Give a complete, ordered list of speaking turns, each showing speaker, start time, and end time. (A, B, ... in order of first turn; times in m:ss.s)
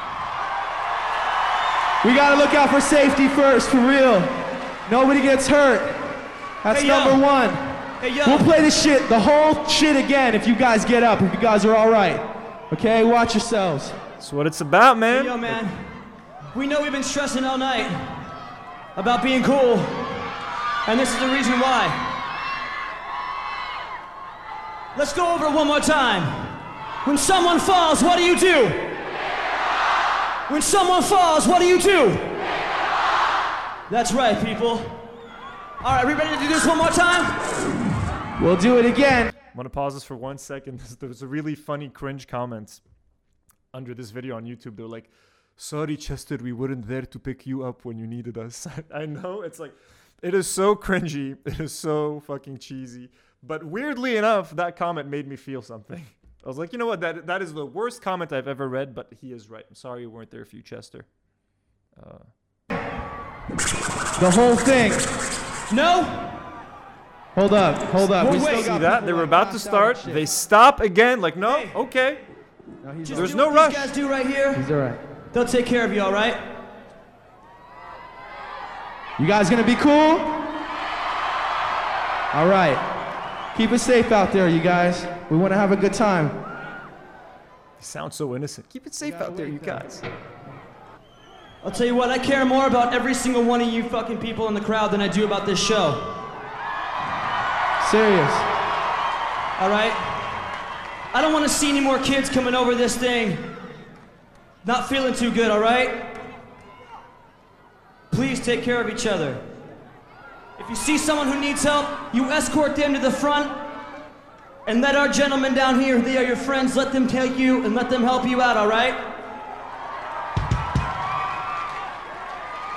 0:02.0-0:06.1 A
0:06.6-0:07.7 A
0:06.7-0:07.2 B
0:08.0-0:08.5 B
0:08.2-0:14.0 A
0:14.2-0:15.6 C
0:15.1-0:15.9 B
0:16.5-0:18.2 B
0:19.0-0:20.2 B
0:20.9-0:22.1 B
0:25.0-0:28.9 B
0:30.5-0:32.3 B
0:33.9-0:35.0 B
0:35.8-0:37.4 B
0:38.4-0:39.3 A
0:39.5-0:42.8 C
0:43.7-1:01.1 C
1:02.0-1:02.3 C
1:04.2-1:05.1 A
1:05.7-1:06.4 B
1:07.4-1:10.3 A
1:08.0-1:08.7 B
1:08.2-1:12.2 C
1:11.4-1:11.7 B
1:12.8-1:13.3 A
1:13.0-1:14.6 B
1:13.1-1:13.9 C
1:14.5-1:15.0 A
1:15.3-1:16.4 B
1:19.2-1:20.4 A
1:22.3-1:22.8 A
1:23.5-1:26.4 A
1:27.8-1:30.1 C
1:29.0-1:30.1 A
1:31.6-1:36.1 B
1:37.8-1:38.5 A
1:39.6-1:40.3 B
1:41.1-1:43.5 B
1:44.6-1:46.1 B
1:48.1-1:49.4 B
1:50.6-1:53.6 B
1:54.7-1:59.0 B